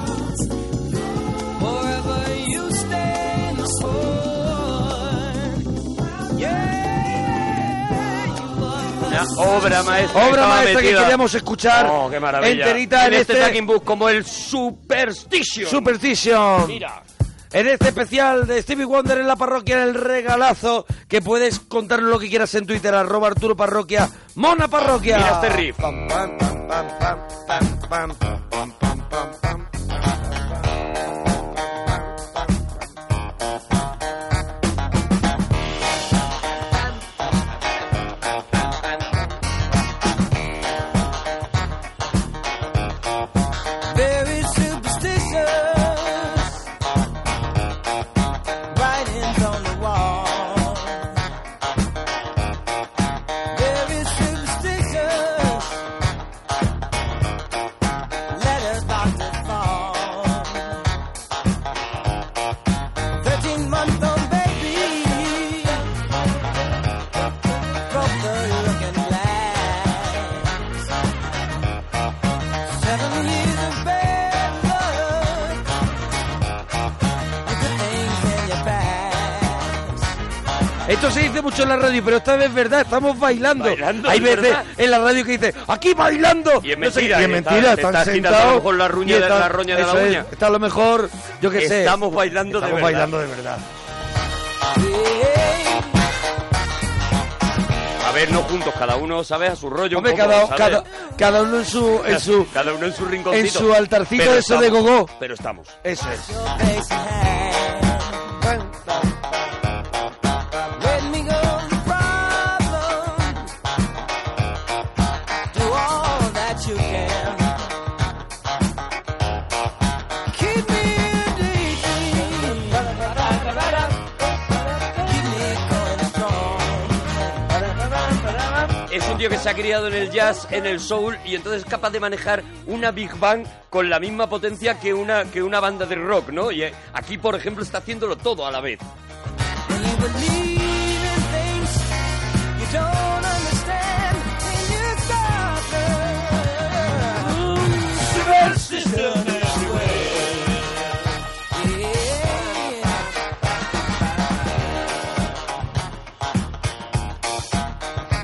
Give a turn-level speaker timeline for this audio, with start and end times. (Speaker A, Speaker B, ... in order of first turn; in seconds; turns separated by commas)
Speaker A: 1.6-5.7, Speaker A: 6.3-10.1, Speaker B: 9.0-11.2, Speaker C: 10.1-13.6, Speaker B: 11.7-15.9, Speaker C: 15.6-16.8, Speaker B: 16.6-17.0, Speaker C: 17.5-29.6, Speaker B: 25.0-25.9, Speaker A: 43.9-46.6, Speaker A: 48.7-51.1, Speaker A: 53.5-55.8, Speaker A: 58.3-60.8, Speaker A: 63.2-65.8, Speaker A: 67.9-70.7, Speaker A: 72.7-75.6, Speaker A: 77.4-80.1, Speaker C: 80.9-92.0, Speaker B: 83.5-84.7, Speaker B: 86.6-90.3, Speaker B: 91.5-93.1, Speaker C: 92.5-93.6, Speaker A: 94.8-96.0, Speaker B: 98.0-100.9, Speaker C: 99.9-102.5, Speaker B: 102.0-105.8, Speaker C: 103.3-105.1, Speaker C: 105.8-106.4, Speaker A: 106.1-108.4, Speaker C: 108.4-108.9, Speaker A: 110.8-113.5, Speaker A: 115.5-117.6, Speaker A: 120.3-123.7, Speaker A: 125.0-127.5, Speaker B: 128.9-138.8, Speaker A: 139.7-141.9, Speaker A: 142.6-147.4, Speaker C: 148.0-150.3, Speaker A: 148.6-150.1, Speaker A: 151.5-153.1, Speaker A: 154.2-154.7